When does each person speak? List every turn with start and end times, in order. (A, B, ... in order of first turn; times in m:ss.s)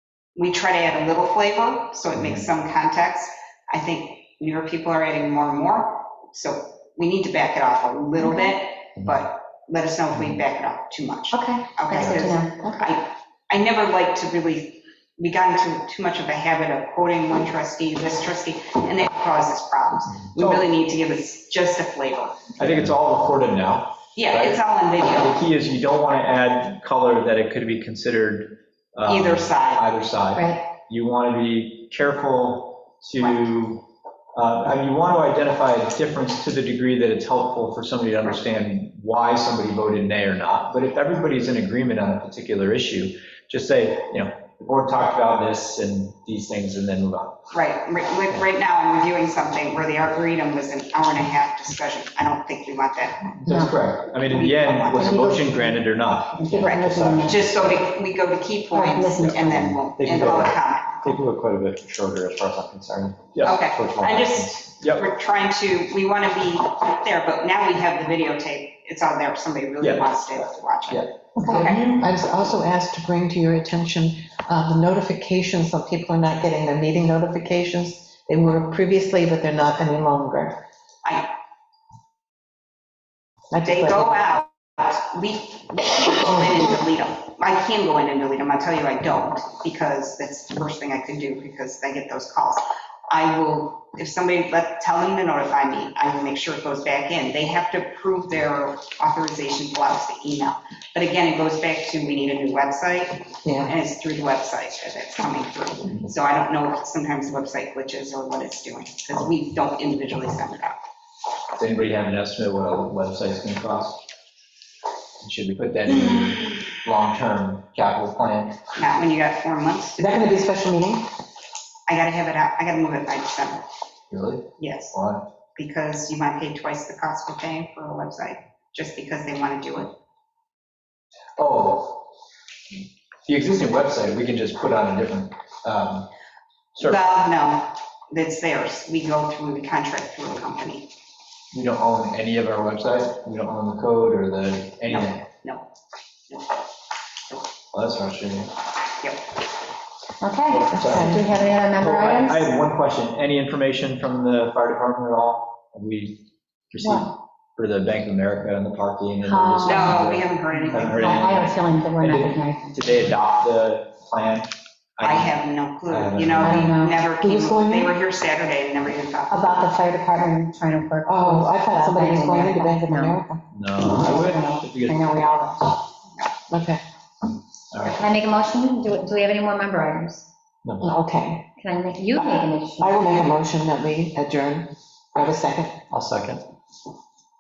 0:00.4-0:22.6 A
0:08.2-0:08.5 B
0:11.3-0:12.8 B
0:12.0-0:12.3 C
0:20.4-0:20.7 C
0:22.6-0:24.6 C
0:24.2-0:25.4 A
0:25.1-0:33.8 C
0:29.0-0:29.9 A
0:30.3-0:30.6 B
0:33.2-0:33.6 A
0:34.4-0:47.4 C
0:47.5-0:53.4 A
0:53.4-0:57.8 C
0:53.5-0:53.8 B
0:54.2-0:55.2 A
0:54.9-0:57.4 B
0:56.6-1:01.2 A
0:58.7-0:59.8 B
0:59.2-1:05.0 C
1:03.4-1:11.9 A
1:09.8-1:10.3 C
1:10.9-1:12.0 C
1:11.5-1:20.6 D
1:21.0-1:21.3 A
1:23.5-1:24.1 D
1:23.6-1:50.8 A
1:43.4-1:43.7 D
1:51.6-1:54.0 C
1:55.2-1:58.6 C
1:55.9-1:56.6 A
1:58.8-2:00.1 A
2:00.0-2:01.0 D
2:01.9-2:03.6 A
2:04.1-2:05.2 C
2:04.6-2:05.0 A
2:05.6-2:09.9 A
2:11.4-2:12.0 C
2:13.3-2:16.1 C
2:16.8-2:17.0 C
2:16.8-2:20.9 A
2:21.5-2:25.2 C
2:24.9-2:25.7 A
2:26.3-2:26.6 A
2:27.7-2:28.5 C
2:30.2-2:32.5 B
2:30.5-2:31.2 C
2:30.7-2:31.3 D
2:31.8-2:46.8 C
2:39.2-2:42.9 B
2:39.6-2:41.4 A
2:45.0-2:49.7 A
2:46.4-2:47.0 B
2:47.2-2:47.9 D
2:49.3-2:53.2 B
2:51.1-2:53.4 D
2:53.5-2:55.3 C
2:53.8-2:55.8 B
2:56.5-2:56.8 D
2:57.7-2:58.0 C
2:57.8-3:00.3 B
3:00.6-3:00.9 C
3:00.8-3:01.5 D
3:01.6-3:03.0 B
3:02.2-3:05.8 D
3:05.9-3:06.4 C